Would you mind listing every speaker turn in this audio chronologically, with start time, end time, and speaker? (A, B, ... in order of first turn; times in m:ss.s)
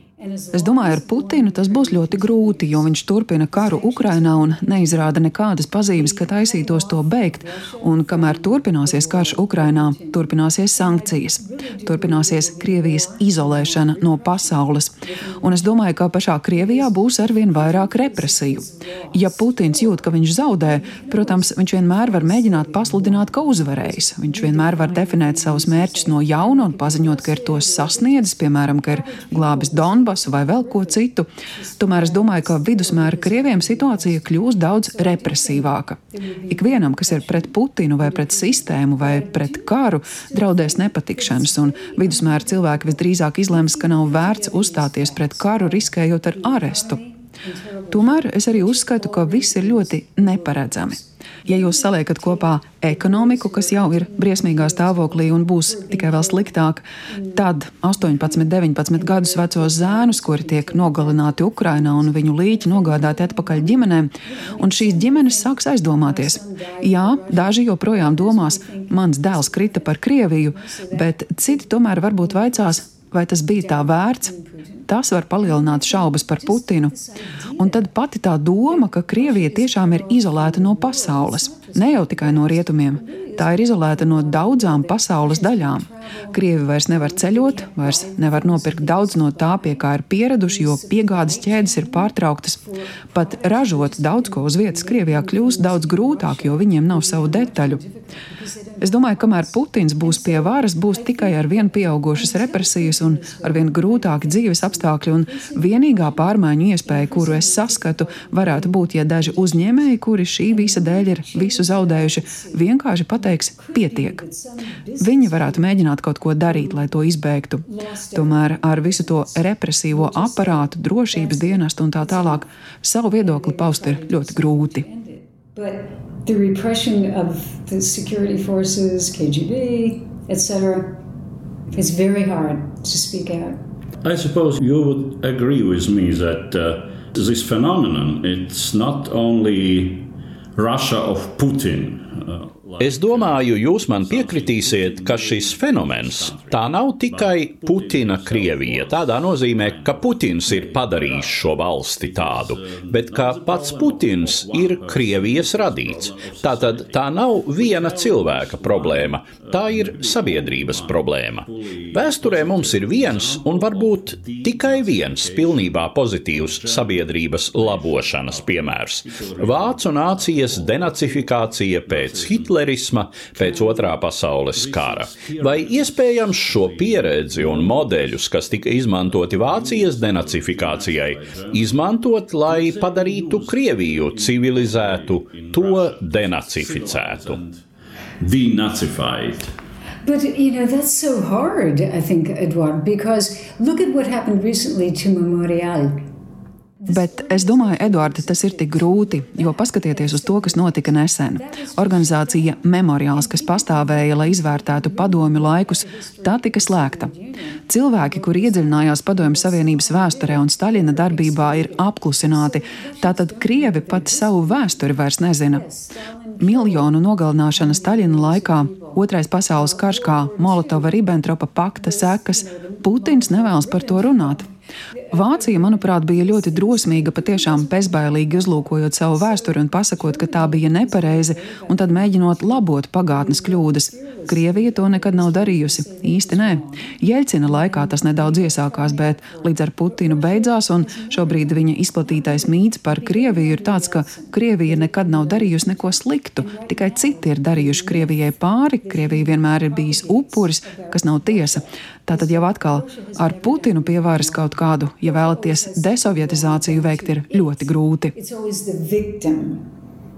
0:00.2-0:03.0 A
0:00.5-0:31.3 B
0:03.5-0:05.2 A
0:05.9-0:15.9 A
0:16.5-1:12.9 A
0:31.8-0:36.0 B
0:36.5-0:47.0 B
0:47.9-1:14.3 B
1:13.5-1:17.9 A
1:14.9-1:16.9 B
1:17.6-1:32.6 B
1:18.6-1:55.8 A
1:33.1-1:37.8 B
1:38.8-1:54.2 B
1:55.0-2:04.8 B
1:56.4-1:56.9 A
1:57.7-2:02.4 A
2:03.1-2:11.0 A
2:11.7-2:13.6 A
2:14.0-2:52.6 C
2:22.8-3:07.4 D
2:53.4-2:54.0 C
2:54.5-3:01.8 C
3:02.5-3:07.6 C
3:08.2-3:09.5 C
3:10.0-3:16.1 A
3:16.8-3:41.2 A
3:16.9-3:27.1 B
3:27.7-3:35.6 B
3:36.4-3:44.4 B
3:41.7-4:19.7 A
3:45.1-4:18.1 B